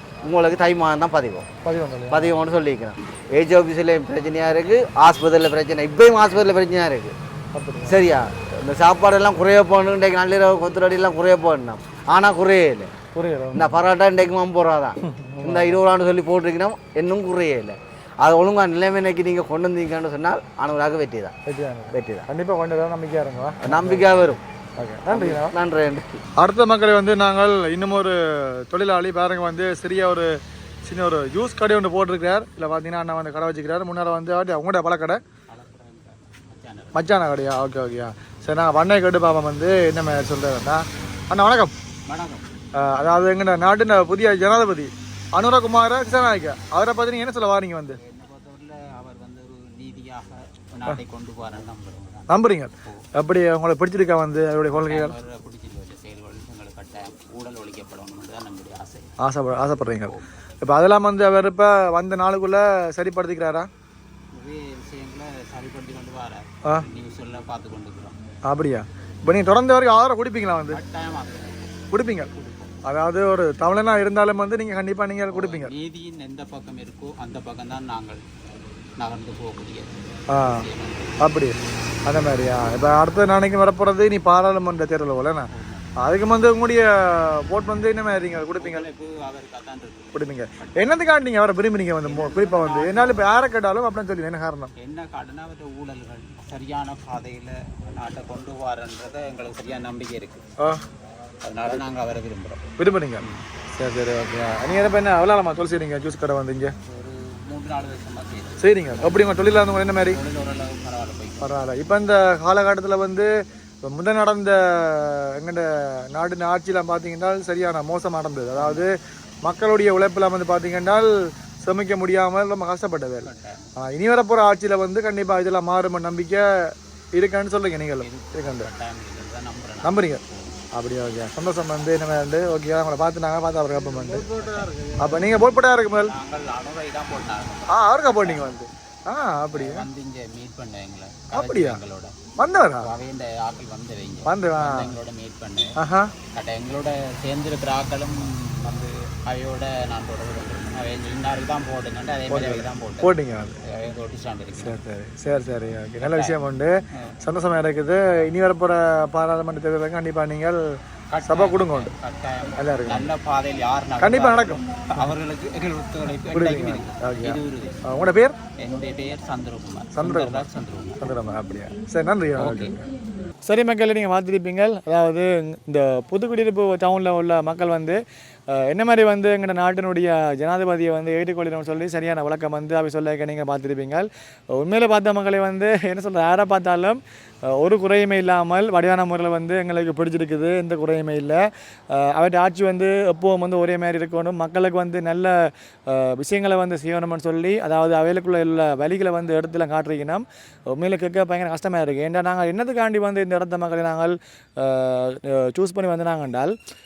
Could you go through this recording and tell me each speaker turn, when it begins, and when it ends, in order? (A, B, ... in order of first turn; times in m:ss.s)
0:00.2-0:01.4 A
0:01.6-0:02.3 B
0:02.1-0:07.1 A
0:04.2-0:05.2 C
0:07.5-0:08.0 B
0:07.8-0:12.9 A
0:13.1-0:13.8 B
0:13.5-0:21.3 A
0:15.0-0:15.8 B
0:21.5-0:25.5 B
0:21.9-0:22.2 A
0:23.6-0:24.4 A
0:25.1-0:26.2 A
0:26.4-0:30.3 B
0:30.8-0:35.2 B
0:35.5-0:37.2 C
0:36.9-0:41.7 B
0:42.1-0:42.5 C
0:42.8-0:48.0 B
0:48.0-0:53.0 C
0:52.3-0:55.2 B
0:54.7-0:59.1 C
0:59.2-1:03.7 B
0:59.9-1:00.2 C
1:04.3-1:08.2 C
1:08.4-1:10.8 B
1:10.7-1:12.8 C
1:11.9-1:12.3 B
1:12.8-1:15.7 B
1:15.3-1:18.2 C
1:19.0-1:21.5 C
1:20.3-1:20.6 B
1:21.2-1:28.8 B
1:25.5-1:25.9 C
1:28.5-1:31.1 C
1:30.1-1:34.7 B
1:32.0-1:33.3 C
1:34.8-1:40.4 C
1:41.4-1:43.4 C
1:42.8-1:46.7 B
1:46.9-1:51.5 C
1:48.6-1:50.2 B
1:51.4-1:53.3 B
1:53.8-1:58.9 B
1:58.5-1:58.8 C
1:59.4-2:01.1 B
2:01.6-2:08.7 B
2:03.2-2:03.7 C
2:08.0-2:10.6 C
2:09.8-2:10.2 B
2:10.7-2:14.3 B
2:13.8-2:18.6 C
2:15.0-2:16.1 B
2:17.7-2:19.9 B
2:19.5-2:22.1 C
2:21.3-2:21.8 B
2:22.4-2:22.9 B
2:22.8-2:25.8 C
2:24.2-2:25.0 B
2:25.8-2:26.1 B
2:26.3-2:34.8 C
2:32.3-2:33.5 B
2:34.6-2:40.6 B
2:36.0-2:36.4 C
2:41.1-2:47.8 C
2:41.2-2:41.9 B
2:42.6-2:43.1 B
2:44.0-2:45.1 B
2:46.3-2:48.3 B
2:48.6-2:51.1 C
2:49.9-2:50.5 B
2:51.0-2:52.8 B
2:52.4-2:52.8 C
2:53.4-2:58.0 B
2:58.5-3:26.5 B